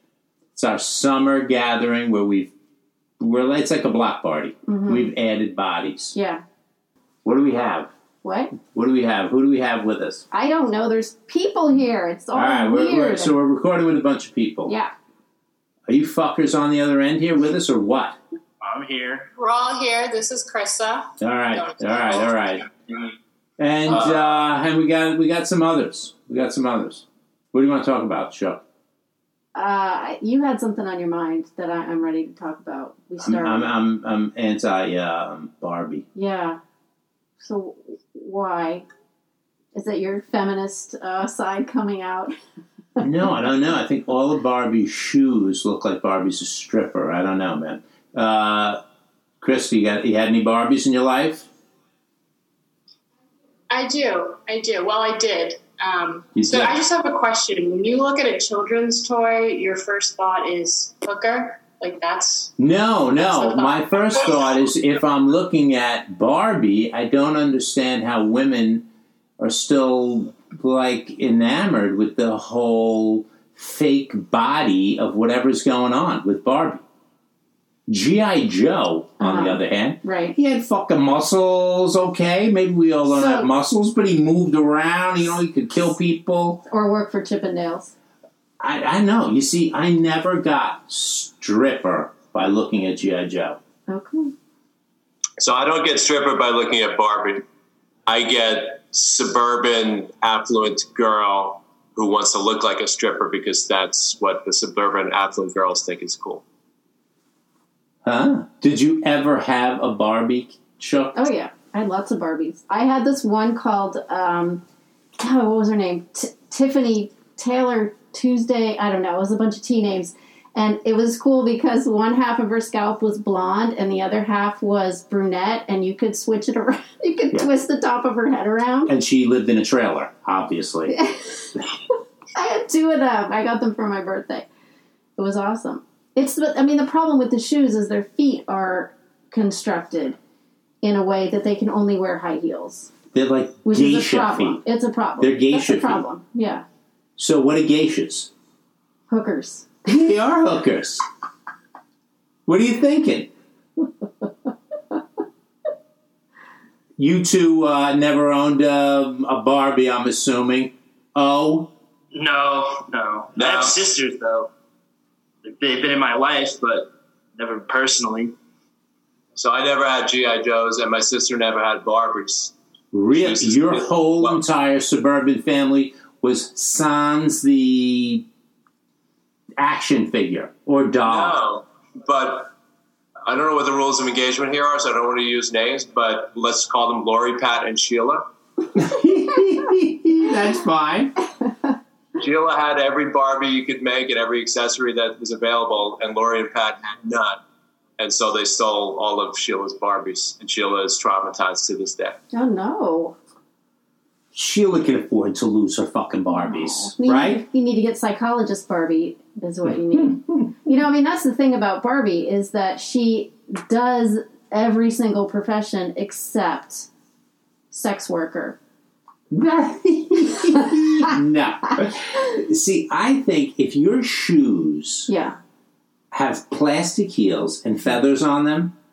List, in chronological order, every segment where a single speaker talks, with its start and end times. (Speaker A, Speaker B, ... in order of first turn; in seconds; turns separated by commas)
Speaker A: 0.5-2.5, Speaker A: 3.2-6.1, Speaker B: 4.7-5.1, Speaker B: 6.1-6.4, Speaker A: 7.2-7.9, Speaker B: 8.2-8.5, Speaker A: 8.6-10.2, Speaker B: 10.3-13.4, Speaker A: 12.3-14.8, Speaker B: 14.7-14.9, Speaker A: 15.9-18.2, Speaker C: 18.6-19.3, Speaker D: 19.4-22.3, Speaker A: 21.2-22.6, Speaker A: 23.6-28.6, Speaker B: 29.6-33.7, Speaker A: 33.2-36.0, Speaker B: 36.1-36.6, Speaker B: 37.4-38.9, Speaker B: 39.7-42.3, Speaker A: 43.0-48.8, Speaker A: 49.4-51.5, Speaker D: 53.7-62.5, Speaker A: 56.3-56.7, Speaker A: 62.6-68.8, Speaker D: 63.1-64.6, Speaker A: 69.4-76.8, Speaker A: 77.9-86.6, Speaker B: 79.2-80.3, Speaker B: 83.1-83.5, Speaker B: 86.7-87.9, Speaker A: 88.6-93.6, Speaker B: 93.9-94.3, Speaker E: 95.5-97.4, Speaker E: 98.3-106.1, Speaker D: 98.8-99.1, Speaker A: 108.0-111.3, Speaker B: 111.2-114.6, Speaker B: 115.2-128.9, Speaker A: 128.9-131.0, Speaker B: 130.9-131.2, Speaker B: 132.3-134.5, Speaker B: 135.2-140.2, Speaker B: 140.8-142.9, Speaker A: 143.1-144.6, Speaker B: 143.6-146.6, Speaker A: 145.2-146.0, Speaker A: 147.2-148.3, Speaker B: 149.1-149.8, Speaker A: 149.8-151.0, Speaker A: 152.4-153.3, Speaker A: 157.0-161.7, Speaker C: 162.1-164.5, Speaker C: 165.4-168.3, Speaker E: 169.6-172.5, Speaker A: 172.9-178.2, Speaker E: 173.2-173.8, Speaker A: 179.6-181.4, Speaker D: 181.1-181.4, Speaker E: 182.1-182.4, Speaker E: 183.3-188.2, Speaker A: 188.8-191.1, Speaker E: 192.2-196.8, Speaker D: 196.9-197.2, Speaker E: 198.0-199.2, Speaker D: 200.2-200.6, Speaker B: 202.3-203.2, Speaker A: 204.3-207.4, Speaker B: 206.3-216.9, Speaker B: 217.7-218.6, Speaker A: 219.3-225.1, Speaker B: 225.1-225.4, Speaker A: 226.1-228.7